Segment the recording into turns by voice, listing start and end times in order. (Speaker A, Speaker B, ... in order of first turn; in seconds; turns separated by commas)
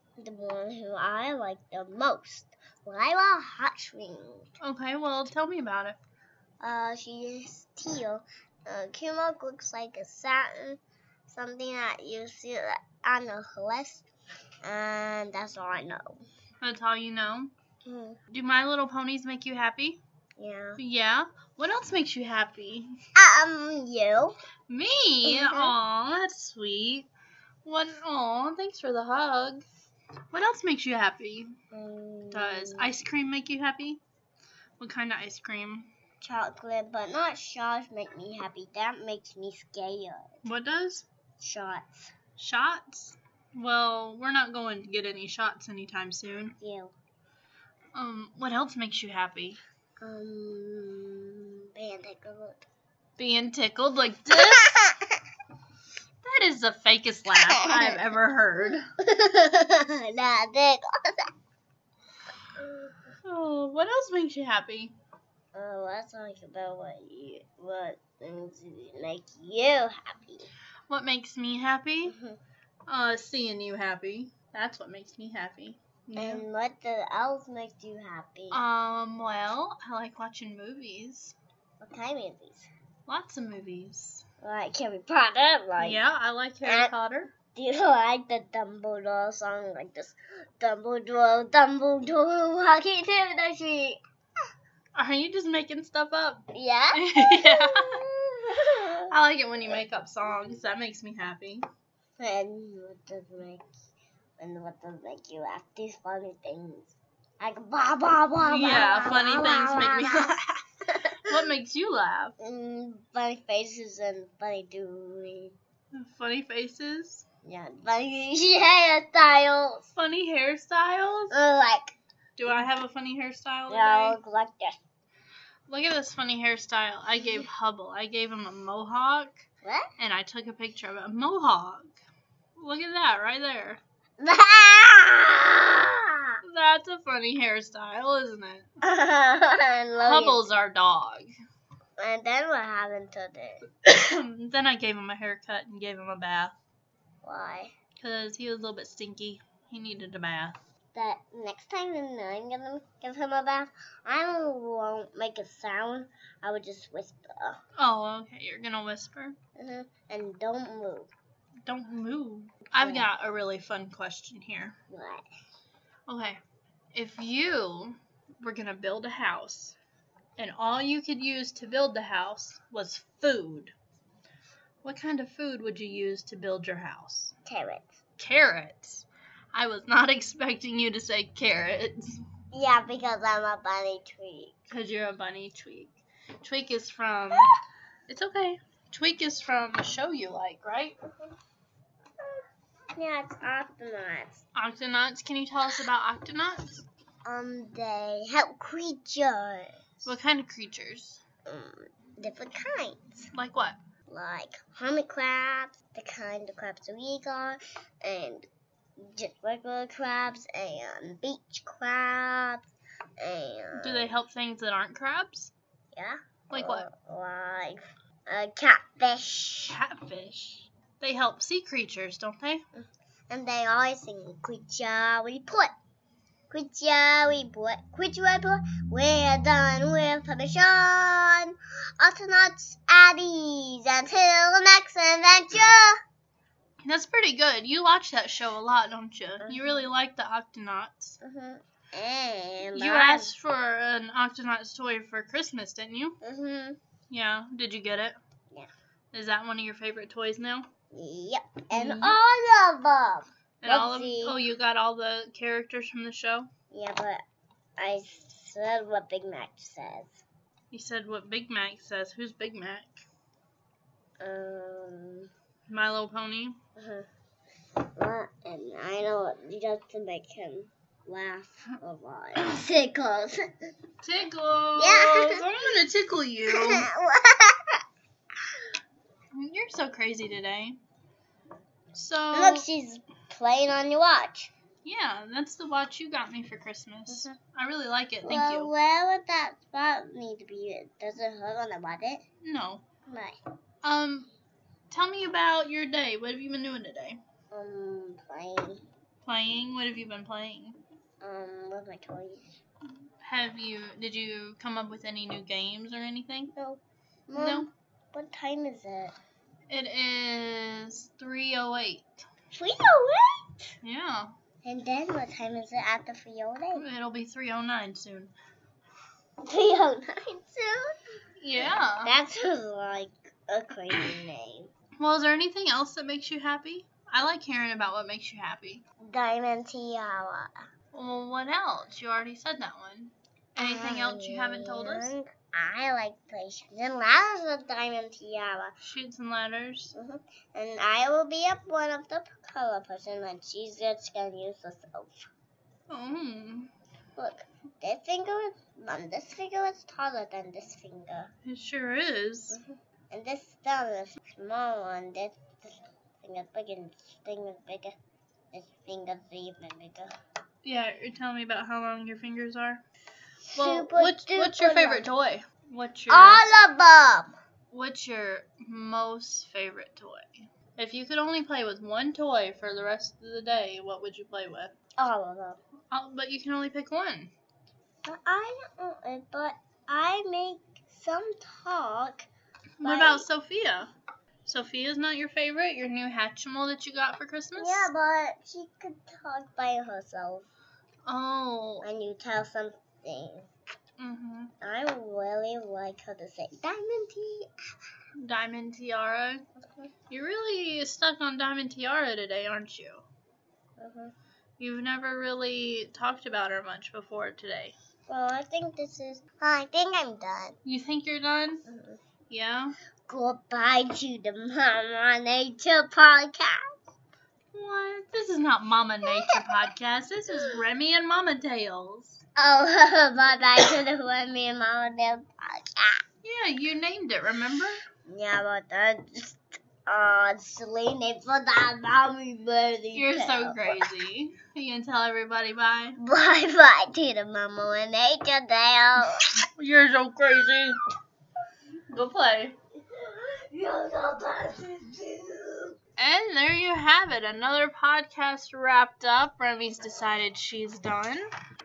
Speaker A: 0.2-4.5, Speaker B: 4.6-6.0, Speaker A: 6.6-14.1, Speaker A: 14.6-16.2, Speaker B: 16.6-17.5, Speaker A: 17.9-18.2, Speaker B: 18.3-20.0, Speaker A: 20.4-20.8, Speaker B: 20.8-22.9, Speaker A: 23.2-24.4, Speaker B: 24.7-27.1, Speaker A: 25.3-25.7, Speaker B: 27.6-29.6, Speaker B: 30.3-31.5, Speaker A: 31.7-32.9, Speaker B: 32.3-34.0, Speaker B: 34.8-35.9, Speaker A: 36.2-40.4, Speaker B: 40.5-41.0, Speaker A: 41.4-42.1, Speaker B: 42.4-46.5, Speaker A: 46.6-46.9, Speaker B: 47.9-49.6, Speaker A: 50.0-52.6, Speaker B: 53.2-54.8, Speaker A: 54.3-55.1, Speaker B: 56.2-58.9, Speaker A: 57.3-58.1, Speaker A: 59.0-61.3, Speaker A: 62.6-62.9, Speaker B: 63.2-65.0, Speaker A: 65.5-70.5, Speaker B: 70.9-72.1, Speaker A: 72.0-72.4, Speaker B: 72.9-76.5, Speaker A: 76.2-78.6, Speaker B: 78.5-81.4, Speaker A: 81.8-82.7, Speaker B: 83.1-84.2, Speaker A: 84.4-86.0, Speaker B: 85.8-87.3, Speaker A: 86.6-86.9, Speaker A: 87.5-94.0, Speaker B: 95.0-98.1, Speaker A: 96.5-99.1, Speaker B: 99.1-101.7, Speaker A: 102.2-103.7, Speaker A: 104.4-110.3, Speaker B: 108.4-110.6, Speaker A: 110.9-111.3, Speaker B: 111.2-112.3, Speaker A: 112.4-115.5, Speaker B: 115.9-117.2, Speaker A: 117.4-119.9, Speaker B: 120.0-121.3, Speaker A: 121.3-122.0, Speaker B: 122.4-124.2, Speaker A: 123.7-124.8, Speaker B: 125.7-129.4, Speaker A: 129.6-129.9, Speaker B: 130.0-131.9, Speaker B: 132.6-133.8, Speaker A: 134.2-136.4, Speaker B: 136.4-138.7, Speaker A: 138.8-140.4, Speaker B: 140.0-141.3, Speaker A: 142.0-143.7, Speaker B: 143.8-146.5, Speaker A: 147.2-147.7, Speaker B: 148.0-150.6, Speaker A: 150.9-157.6, Speaker B: 157.8-159.4, Speaker A: 159.6-161.1, Speaker B: 161.7-164.8, Speaker A: 162.7-163.1, Speaker A: 164.9-165.2, Speaker B: 166.1-166.4, Speaker B: 166.9-169.8, Speaker B: 170.4-173.7, Speaker B: 174.8-177.3, Speaker A: 177.4-178.0, Speaker B: 178.2-182.2, Speaker A: 182.5-184.7, Speaker B: 184.7-187.5, Speaker B: 188.1-191.0, Speaker A: 192.9-194.4, Speaker B: 194.6-196.8, Speaker A: 197.3-199.8, Speaker B: 200.0-201.2, Speaker A: 201.5-203.3, Speaker B: 203.3-203.8, Speaker A: 204.1-208.5, Speaker A: 209.0-212.7, Speaker A: 213.2-214.2, Speaker B: 213.8-215.5, Speaker A: 215.9-219.8, Speaker B: 216.5-216.9, Speaker B: 219.7-222.6, Speaker A: 222.8-225.7, Speaker A: 226.5-236.0, Speaker B: 236.8-241.2, Speaker A: 239.4-239.9, Speaker A: 241.2-243.3, Speaker B: 242.7-246.2, Speaker A: 246.2-246.8, Speaker B: 247.1-248.2, Speaker B: 249.1-250.7, Speaker A: 250.9-254.4, Speaker B: 251.7-252.2, Speaker B: 253.6-256.5, Speaker A: 256.7-257.2, Speaker A: 257.8-260.2, Speaker B: 260.7-263.0, Speaker A: 264.2-265.3, Speaker B: 265.7-266.6, Speaker A: 266.8-267.1, Speaker A: 268.0-273.4, Speaker B: 274.0-276.9, Speaker A: 274.8-275.5, Speaker A: 276.5-277.8, Speaker B: 279.3-280.8, Speaker B: 281.9-282.7, Speaker A: 282.3-284.5, Speaker B: 284.9-288.7, Speaker A: 287.1-287.4, Speaker A: 288.2-292.2, Speaker B: 292.4-292.8, Speaker A: 293.1-293.4, Speaker B: 293.8-294.3, Speaker B: 294.9-297.2, Speaker A: 297.5-298.8, Speaker B: 299.2-300.8, Speaker A: 301.2-302.5, Speaker B: 303.2-306.5, Speaker A: 306.6-309.1, Speaker B: 307.4-307.7, Speaker B: 309.7-312.1, Speaker A: 312.5-313.8, Speaker B: 313.8-314.3, Speaker A: 314.6-316.9, Speaker B: 316.8-318.3, Speaker A: 319.4-320.9, Speaker B: 321.4-322.1, Speaker A: 321.6-324.7, Speaker B: 325.0-328.8, Speaker A: 329.0-330.5, Speaker B: 330.9-335.1, Speaker A: 333.6-338.8, Speaker B: 338.8-339.9, Speaker A: 339.9-345.3, Speaker B: 345.9-346.7, Speaker A: 347.2-351.3, Speaker B: 351.5-352.6, Speaker A: 352.5-357.9, Speaker A: 358.5-360.1, Speaker B: 360.6-362.8, Speaker A: 363.5-365.1, Speaker B: 363.5-366.5, Speaker A: 366.1-367.4, Speaker B: 367.7-374.7, Speaker A: 375.0-375.6, Speaker B: 375.9-377.3, Speaker A: 378.1-382.3, Speaker B: 382.8-383.9, Speaker A: 382.8-383.3, Speaker B: 384.4-387.9, Speaker A: 387.6-390.5, Speaker B: 391.1-391.9, Speaker A: 391.8-393.5, Speaker B: 394.0-394.5, Speaker A: 394.6-397.5, Speaker B: 398.2-399.4, Speaker A: 399.6-399.9, Speaker B: 400.1-403.1, Speaker A: 403.8-404.1, Speaker B: 404.6-407.8, Speaker A: 408.1-410.6, Speaker B: 410.6-411.6, Speaker A: 411.7-412.0, Speaker B: 412.3-412.8, Speaker A: 413.1-416.8, Speaker B: 417.5-422.2, Speaker A: 419.1-419.6, Speaker A: 422.4-426.0, Speaker B: 426.2-427.8, Speaker A: 428.1-433.8, Speaker B: 432.9-436.0, Speaker A: 436.0-439.3, Speaker B: 439.6-440.8, Speaker B: 441.9-442.6, Speaker A: 442.9-445.8, Speaker B: 446.0-451.3